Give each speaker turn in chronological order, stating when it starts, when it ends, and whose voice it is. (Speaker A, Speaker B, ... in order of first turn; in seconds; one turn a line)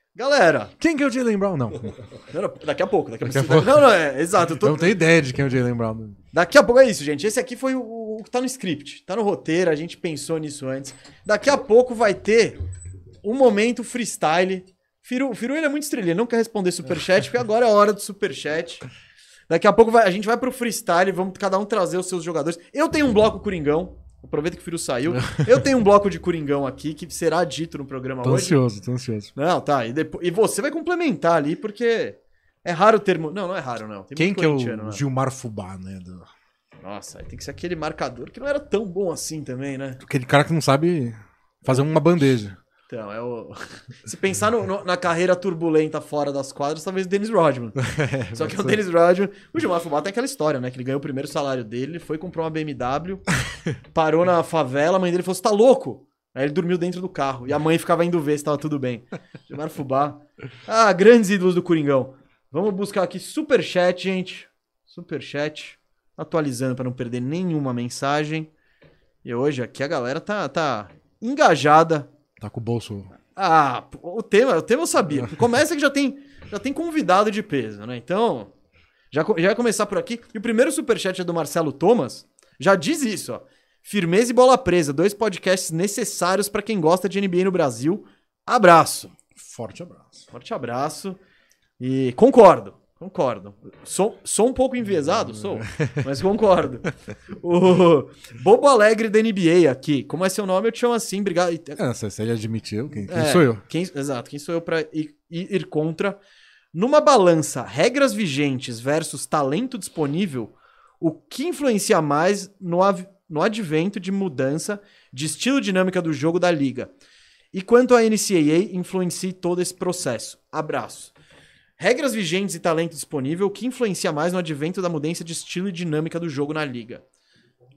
Speaker A: 0.1-0.7
Speaker B: 0.8-2.0
Speaker A: 2.3-4.9
Speaker B: 3.2-3.9
Speaker B: 4.5-6.2
Speaker A: 6.3-12.6
Speaker A: 13.2-18.8
Speaker A: 19.5-28.6
Speaker B: 28.2-29.3
Speaker A: 29.3-35.0
Speaker B: 34.1-36.3
Speaker A: 36.8-40.0
Speaker B: 40.0-42.6
Speaker A: 42.9-47.8
Speaker B: 47.8-48.8
Speaker A: 48.3-53.2
Speaker A: 53.9-68.5
Speaker A: 69.2-72.1
Speaker B: 72.4-73.1
Speaker A: 73.3-78.5
Speaker A: 79.1-89.1
Speaker B: 89.3-90.2
Speaker A: 90.3-91.2
Speaker A: 91.8-96.8
Speaker B: 95.4-96.0
Speaker A: 97.4-101.8
Speaker B: 101.8-103.6
Speaker A: 102.9-106.2
Speaker A: 106.7-116.9
Speaker A: 117.5-121.1
Speaker A: 121.8-127.0